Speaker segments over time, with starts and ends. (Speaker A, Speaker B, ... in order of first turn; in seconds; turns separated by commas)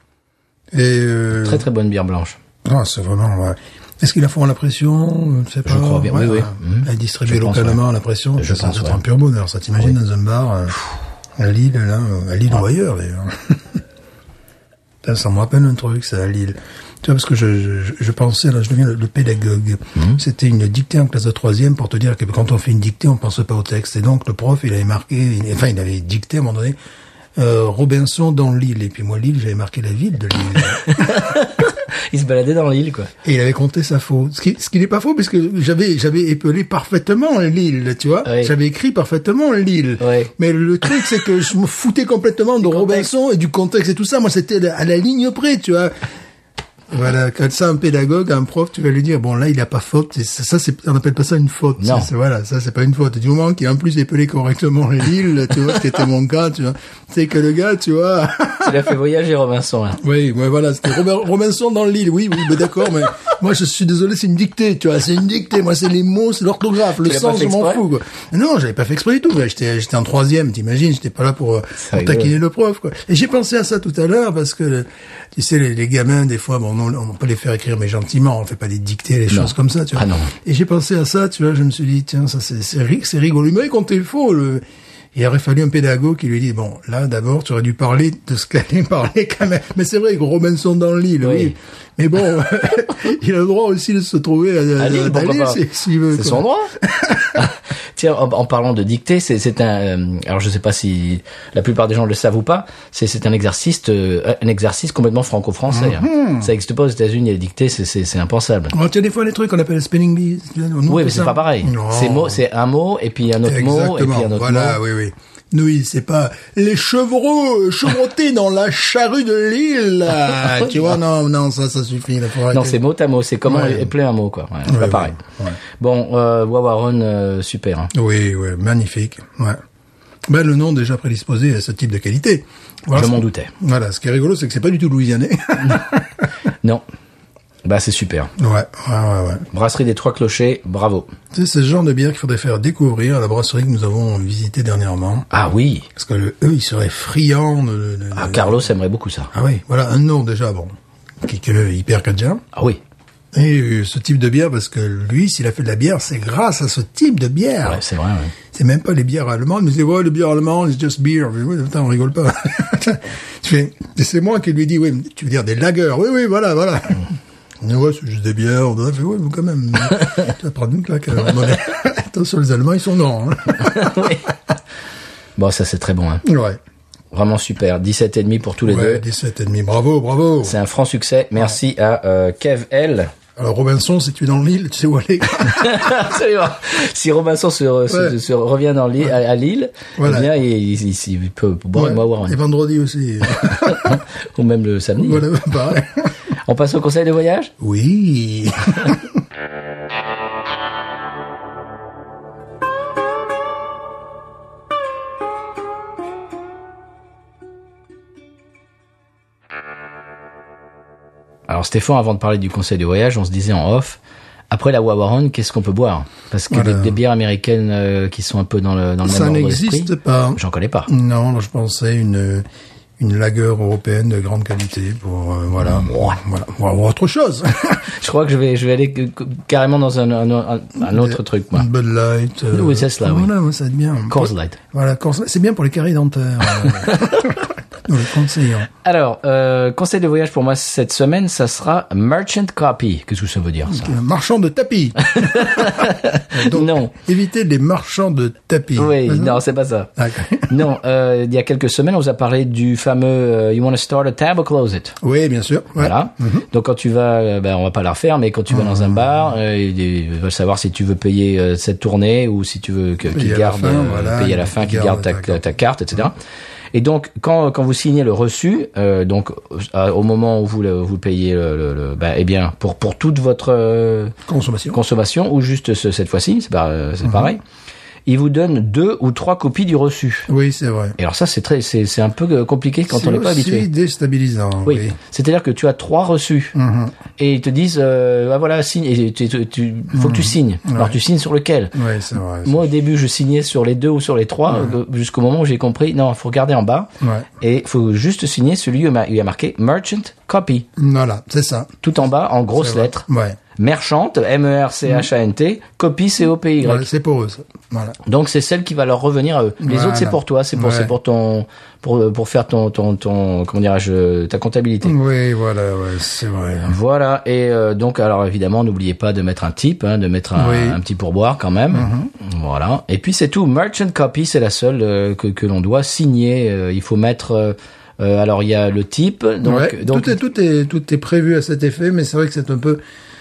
Speaker A: 0.7-1.7, Speaker B: 1.4-2.4, Speaker A: 2.6-10.8, Speaker B: 5.7-7.8, Speaker B: 8.4-9.0, Speaker A: 11.4-13.8, Speaker A: 15.0-26.8, Speaker A: 27.4-31.2, Speaker B: 30.8-33.1, Speaker A: 33.2-45.9, Speaker B: 38.2-38.5, Speaker B: 40.0-40.3, Speaker B: 42.6-43.1, Speaker A: 46.9-58.9, Speaker B: 51.8-52.1, Speaker B: 58.6-60.0, Speaker A: 60.0-84.6, Speaker B: 67.0-67.8, Speaker B: 71.8-72.3, Speaker B: 79.3-80.3, Speaker A: 85.1-97.4, Speaker B: 91.2-91.5, Speaker B: 94.8-95.6, Speaker B: 96.1-96.7, Speaker B: 97.4-108.8, Speaker A: 105.7-106.5, Speaker A: 108.7-112.4, Speaker B: 110.9-114.8, Speaker A: 113.4-122.8, Speaker B: 122.5-125.2, Speaker A: 123.5-123.9, Speaker A: 124.7-125.6, Speaker B: 125.8-127.9, Speaker A: 127.9-129.6, Speaker A: 130.3-136.3, Speaker B: 132.9-133.5, Speaker B: 137.6-138.3, Speaker A: 138.4-139.5, Speaker B: 139.5-141.1, Speaker A: 141.3-145.3, Speaker B: 145.3-145.9, Speaker A: 146.0-148.6, Speaker B: 148.1-149.3, Speaker A: 149.3-152.4, Speaker B: 152.5-152.8, Speaker A: 153.3-157.8, Speaker B: 157.7-158.3, Speaker A: 158.5-174.2, Speaker B: 173.6-174.3, Speaker B: 175.4-176.3, Speaker A: 176.2-176.6, Speaker B: 177.1-179.0, Speaker A: 178.7-180.6, Speaker B: 180.4-183.1, Speaker A: 183.4-186.0, Speaker B: 185.4-192.4, Speaker A: 187.9-188.2, Speaker A: 190.0-190.3, Speaker A: 191.7-194.0, Speaker B: 193.4-195.3, Speaker A: 195.0-196.1, Speaker B: 196.4-197.5, Speaker A: 197.6-199.1, Speaker B: 211.5-214.0, Speaker B: 214.5-220.9, Speaker A: 216.5-217.0, Speaker A: 219.0-222.4, Speaker A: 223.0-227.9, Speaker B: 225.7-226.2, Speaker B: 227.9-231.7, Speaker A: 230.8-238.7, Speaker B: 232.5-233.3, Speaker B: 234.1-234.6, Speaker B: 236.8-237.3, Speaker B: 238.8-243.9, Speaker A: 243.7-249.4, Speaker B: 245.0-246.9, Speaker B: 248.8-249.9, Speaker A: 250.0-250.6, Speaker B: 250.4-255.0, Speaker A: 255.0-256.5, Speaker B: 255.8-266.2, Speaker A: 258.5-259.3, Speaker A: 263.1-265.5, Speaker B: 266.7-274.1, Speaker A: 274.3-274.8, Speaker B: 274.7-277.4, Speaker A: 277.0-277.3, Speaker B: 278.1-280.3, Speaker A: 280.3-281.0, Speaker B: 281.0-283.7, Speaker A: 282.9-285.0, Speaker B: 284.7-286.6, Speaker A: 286.6-286.9, Speaker B: 287.2-291.8, Speaker A: 289.9-291.0, Speaker A: 291.7-292.7, Speaker B: 292.4-300.7, Speaker A: 294.5-294.8, Speaker A: 297.0-297.3, Speaker A: 300.8-301.8, Speaker B: 301.8-303.1, Speaker A: 302.6-303.4, Speaker B: 303.6-306.9, Speaker A: 306.6-308.0, Speaker B: 308.0-315.0, Speaker A: 309.6-310.9, Speaker A: 314.8-316.8, Speaker B: 316.6-330.2, Speaker A: 320.4-320.8, Speaker A: 321.7-322.1, Speaker A: 329.4-332.8